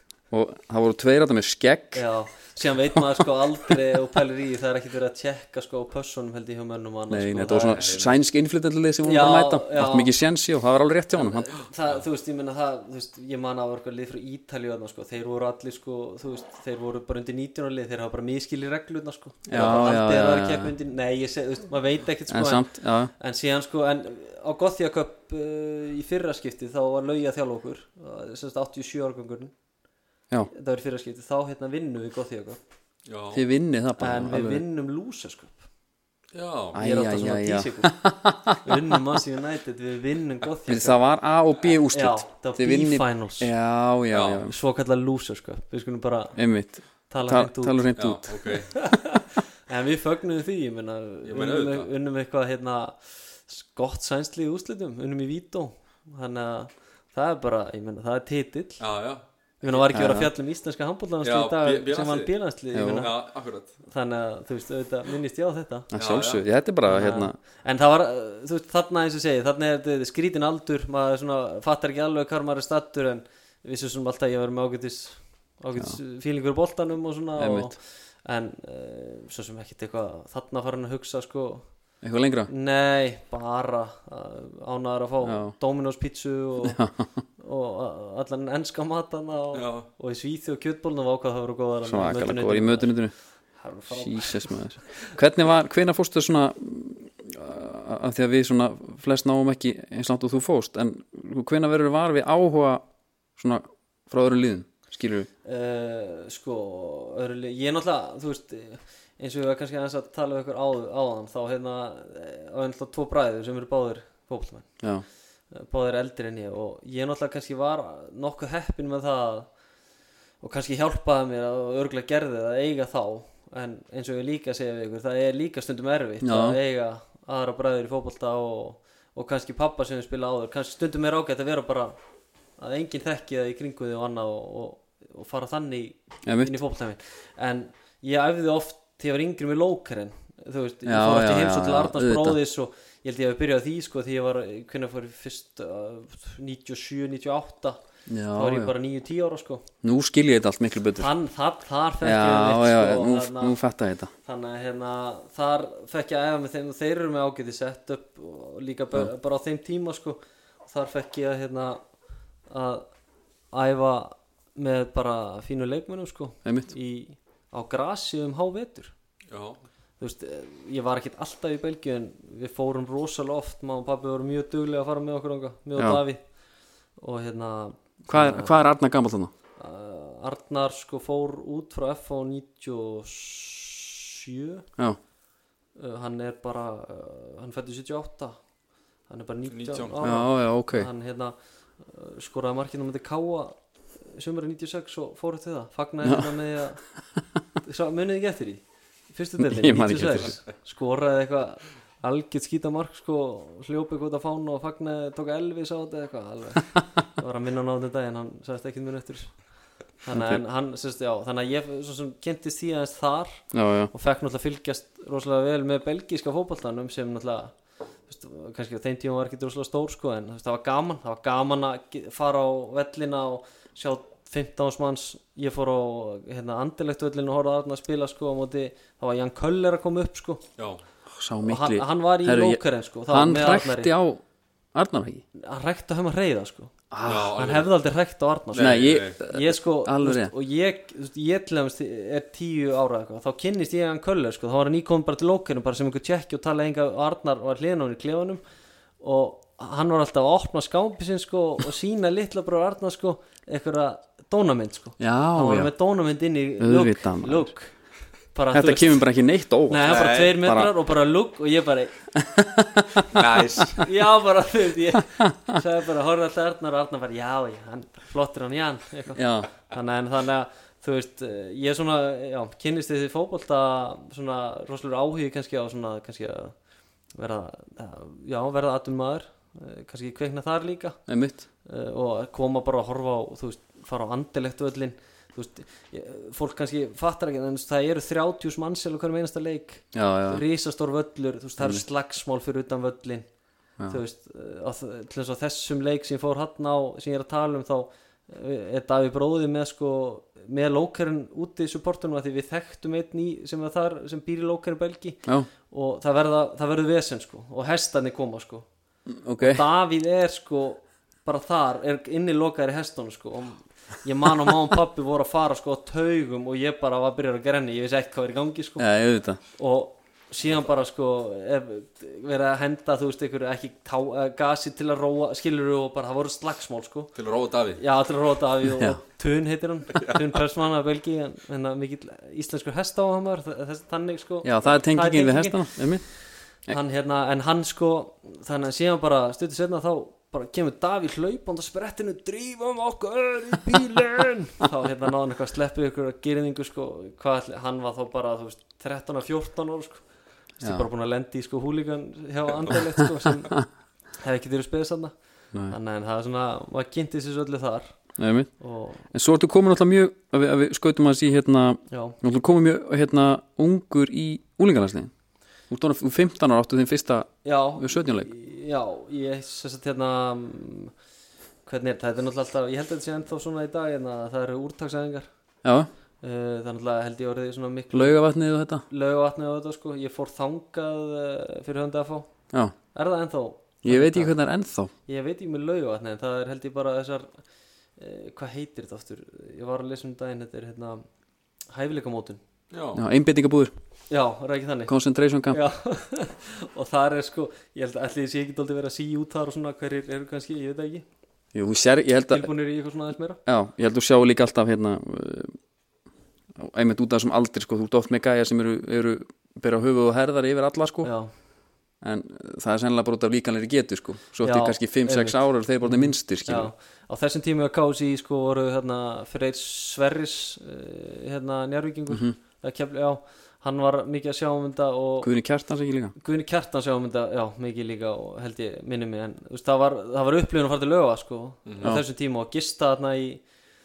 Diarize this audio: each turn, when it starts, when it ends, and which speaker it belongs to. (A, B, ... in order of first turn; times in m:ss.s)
0:00.3-0:02.0 A
0:01.9-0:08.1 B
0:07.1-0:11.5 A
0:07.5-0:08.1 C
0:09.0-0:10.1 B
0:11.1-0:29.5 B
0:19.5-0:20.7 A
0:19.5-0:19.9 C
0:22.3-0:23.1 A
0:30.5-0:32.6 B
0:33.1-0:33.4 C
0:33.3-0:34.6 A
0:34.0-0:35.6 B
0:36.3-0:36.8 C
0:36.7-0:39.0 A
0:36.8-0:41.0 B
0:40.7-0:44.6 A
0:41.9-0:43.5 B
0:44.1-0:44.4 C
0:44.4-0:46.4 B
0:46.4-0:48.4 A
0:47.1-0:47.9 B
0:48.0-0:48.8 C
0:48.7-0:58.8 B
0:51.2-0:51.9 C
0:58.8-0:59.9 C
0:59.6-1:03.2 B
0:59.9-1:00.3 A
1:01.2-1:03.8 C
1:02.7-1:03.1 A
1:03.8-1:05.9 B
1:05.9-1:07.4 A
1:06.0-1:06.4 C
1:06.9-1:21.7 B
1:17.4-1:17.7 A
1:22.0-1:22.5 A
1:22.5-1:26.8 B
1:25.2-1:25.6 A
1:26.6-1:27.1 A
1:27.4-1:33.0 B
1:29.5-1:29.9 C
1:31.9-1:33.1 A
1:33.6-1:35.2 B
1:33.9-1:42.8 A
1:43.4-1:45.3 A
1:45.4-1:54.7 B
1:55.5-1:59.5 B
2:00.4-2:12.0 B
2:06.2-2:06.6 A
2:12.6-2:27.8 B
2:16.3-2:16.6 A
2:20.8-2:22.4 A
2:28.1-2:28.7 A
2:28.3-2:29.7 B
2:29.8-2:31.1 A
2:31.0-2:33.6 B
2:32.0-2:34.1 A
2:34.2-2:41.8 B
2:42.5-2:42.9 B
2:43.5-2:48.9 B
2:46.4-2:46.7 A
2:49.3-2:49.6 C
2:50.0-2:56.2 B
2:55.8-2:56.0 A
2:57.0-2:58.6 B
2:58.1-2:59.3 A
2:59.6-3:04.6 B
3:05.8-3:08.4 B
3:09.1-3:16.8 B
3:09.5-3:10.2 C
3:10.0-3:10.9 A
3:16.0-3:16.4 A
3:17.6-3:29.4 B
3:19.4-3:20.4 A
3:30.0-3:37.6 B
3:30.1-3:30.4 A
3:33.5-3:33.9 A
3:38.1-3:50.4 B
3:51.1-3:54.2 A
3:51.4-3:53.9 B
3:54.7-3:55.2 A
3:55.4-4:08.4 B
3:56.9-3:57.4 A
3:57.0-3:57.7 C
3:58.5-3:59.2 C
3:58.6-4:00.3 A
4:09.0-4:17.7 B
4:15.0-4:15.7 A
4:16.6-4:17.5 A
4:18.3-4:19.0 B
4:18.5-4:20.7 A
4:19.7-4:22.0 B
4:19.8-4:20.4 C
4:22.2-4:23.4 A
4:23.1-4:23.9 C
4:23.8-4:36.6 B
4:25.2-4:25.6 A
4:29.2-4:29.5 A
4:37.2-4:41.0 B
4:41.1-4:41.4 A
4:41.6-4:53.3 B
4:49.9-4:50.4 A
4:53.9-5:08.7 B
5:09.1-5:09.6 A
5:09.4-5:18.8 B
5:18.8-5:19.4 A
5:19.6-5:27.1 B
5:27.2-5:27.8 C
5:27.8-5:50.0 B
5:28.7-5:29.0 A
5:34.4-5:36.1 A
5:50.6-5:53.6 B
5:50.6-5:50.9 A
5:54.2-5:55.1 B
5:55.6-5:58.0 B
5:58.2-5:58.5 A
5:58.6-5:59.1 B
5:59.1-6:05.1 A
6:01.9-6:02.2 B
6:05.7-6:08.3 A
6:07.4-6:10.9 B
6:11.6-6:15.3 B
6:15.6-6:15.9 A
6:16.2-6:18.2 B
6:17.9-6:18.8 A
6:18.9-6:22.3 B
6:22.9-6:24.4 B
6:23.8-6:24.9 A
6:25.1-6:27.3 B
6:28.0-6:31.0 B
6:31.7-6:32.4 B
6:32.7-6:33.0 C
6:33.0-6:33.7 A
6:34.1-6:34.9 B
6:34.9-6:35.6 A
6:35.5-6:41.0 B
6:41.5-6:42.5 A
6:42.3-6:43.4 B
6:43.5-6:45.6 A
6:46.6-6:51.1 A
6:51.0-6:51.3 B
6:52.0-6:56.7 A
6:54.4-7:05.3 B
7:02.1-7:02.4 A
7:05.2-7:06.1 A
7:06.2-7:13.4 B
7:11.7-7:12.0 C